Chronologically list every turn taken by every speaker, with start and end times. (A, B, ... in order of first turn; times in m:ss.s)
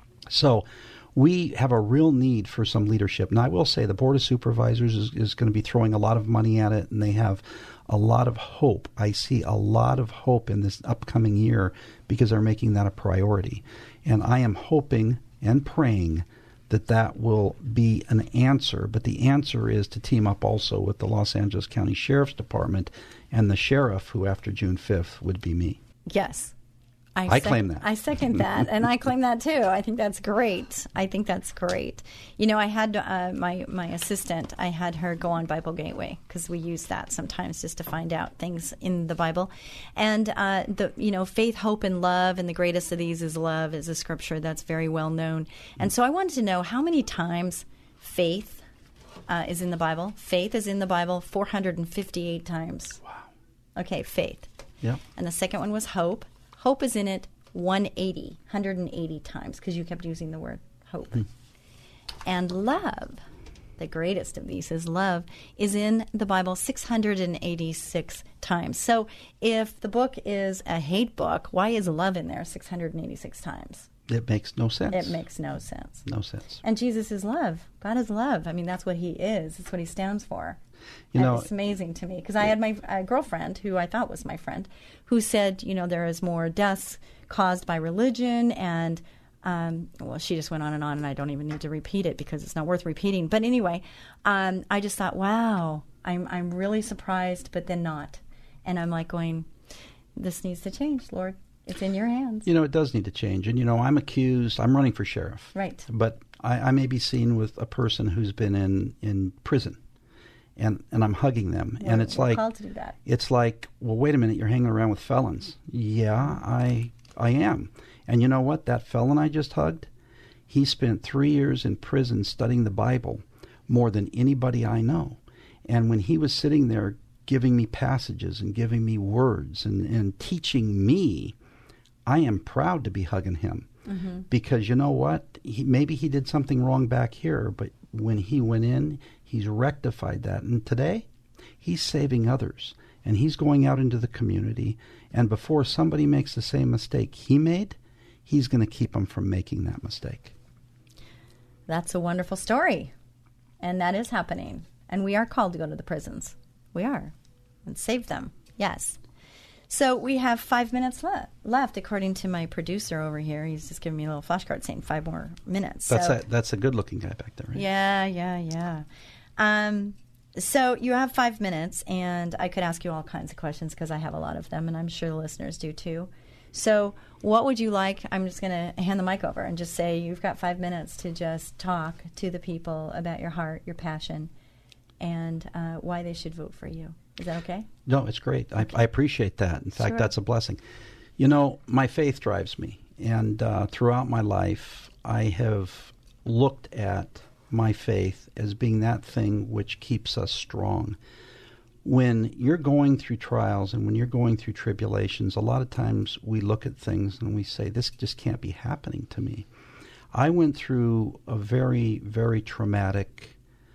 0:00.3-0:25.8 A
0:26.1-0:26.5 B
0:27.1-0:48.6 B
0:27.3-0:28.4 A
0:49.3-0:53.0 B
0:53.8-0:54.5 B
0:55.1-1:01.2 B
1:02.2-1:03.2 B
1:03.8-1:13.9 B
1:14.1-1:15.2 A
1:14.9-1:16.0 B
1:16.0-1:16.6 A
1:16.6-1:20.6 B
1:21.1-1:21.5 A
1:21.1-1:39.5 B
1:40.2-1:42.5 B
1:42.4-1:49.8 A
1:45.5-1:45.8 B
1:50.6-1:52.4 A
1:51.8-1:53.0 B
1:53.0-1:59.9 A
2:00.5-2:11.4 A
2:12.0-2:13.7 A
2:13.9-2:14.2 B
2:14.3-2:21.1 A
2:21.6-2:30.3 A
2:31.7-2:32.9 B
2:33.6-2:37.1 B
2:37.6-2:39.0 B
2:39.7-2:46.2 B
2:45.9-2:47.6 A
2:47.5-2:48.8 B
2:49.4-3:04.3 B
3:05.0-3:07.7 B
3:07.8-3:10.6 A
3:09.8-3:10.1 B
3:11.2-3:21.0 A
3:21.8-3:29.5 A
3:30.1-3:33.4 A